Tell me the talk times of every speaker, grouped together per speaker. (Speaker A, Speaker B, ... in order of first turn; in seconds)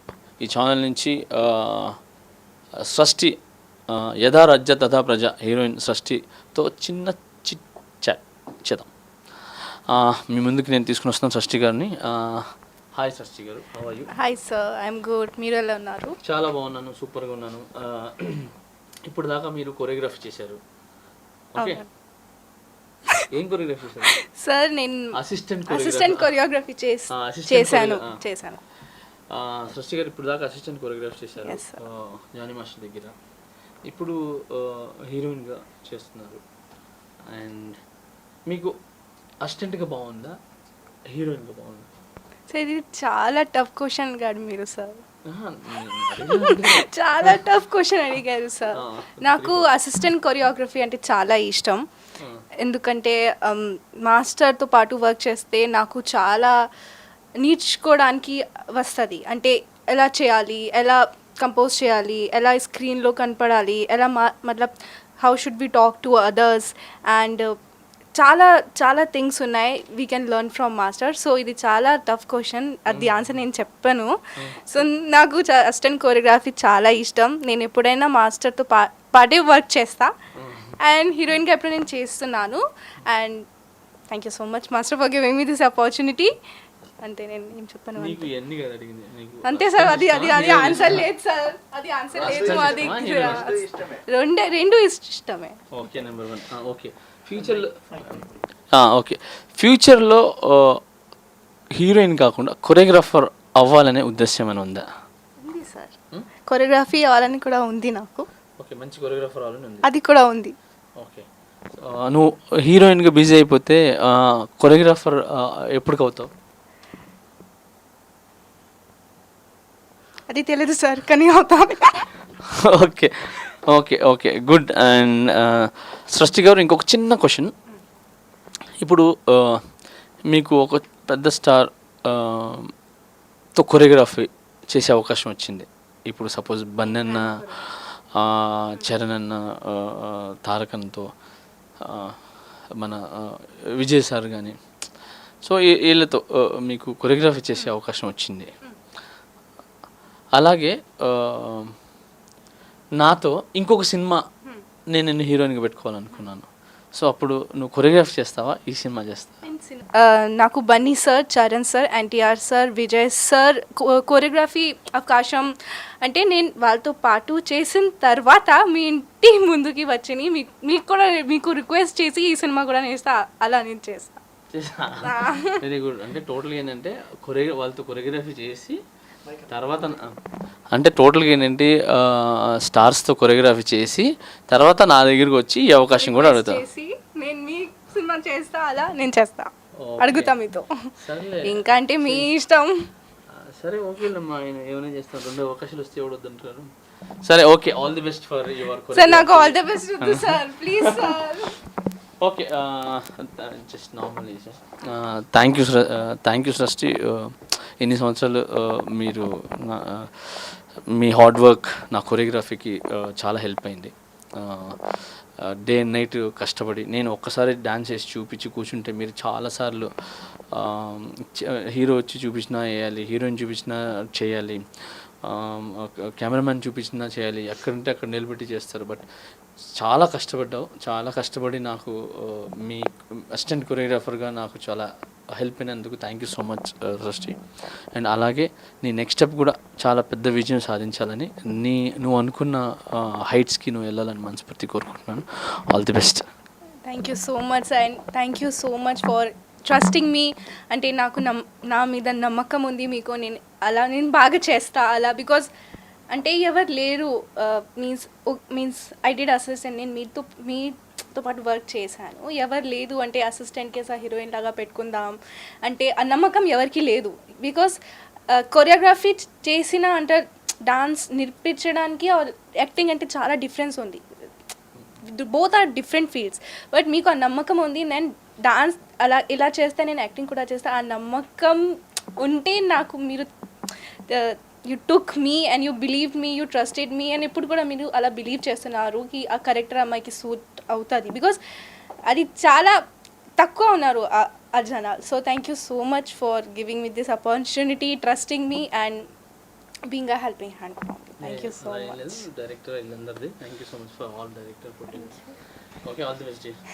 Speaker A: 0.4-2.0, 2.8-3.4, 3.9-8.9, 9.9-12.4, 13.0-14.1, 16.2-18.5, 19.1-20.6, 21.6-21.8, 23.3-24.1, 25.2-26.3, 27.1-28.1, 29.3-33.1, 33.9-36.4, 37.3-37.8, 38.5-38.7, 39.4-40.4, 41.1-41.9, 45.3-47.4, 48.8-49.7, 52.2-52.4, 72.9-73.4, 74.4-74.9, 80.4-80.8, 88.0-91.1, 92.2-93.8, 95.7-100.8, 101.8-104.8, 108.6-109.8, 111.0-116.3, 122.4-127.5, 128.8-129.6, 130.3-132.7, 133.6-141.1, 141.8-142.2, 142.8-144.6, 145.4-148.5, 150.4-151.7, 153.0-154.2, 154.9-159.4, 174.5-178.8, 179.4-180.2, 180.7-186.6, 189.8-190.3, 191.0-192.3, 193.3-196.7, 197.2-201.4, 202.2-229.0, 229.8-237.4, 237.9-246.2, 301.2-305.1, 305.8-306.6
Speaker B: 14.2-16.1, 21.6-21.9, 24.3-25.1, 25.7-28.6, 31.4-31.8, 42.5-45.0, 46.2-51.8, 52.6-56.5, 57.4-67.5, 68.2-74.1, 74.6-80.1, 80.8-83.4, 84.1-86.3, 87.0-88.3, 89.5-95.6, 105.4-106.0, 106.5-108.3, 109.8-110.5, 120.3-122.1, 136.8-137.6, 159.4-165.5, 166.0-174.2, 175.1-175.6, 186.0-190.9, 191.4-192.7, 198.9-201.6, 246.9-255.5, 256.1-267.8, 268.3-274.0, 275.1-281.6, 282.2-283.3, 284.1-291.4, 292.1-292.8, 293.4-299.0, 299.9-302.2, 304.9-305.3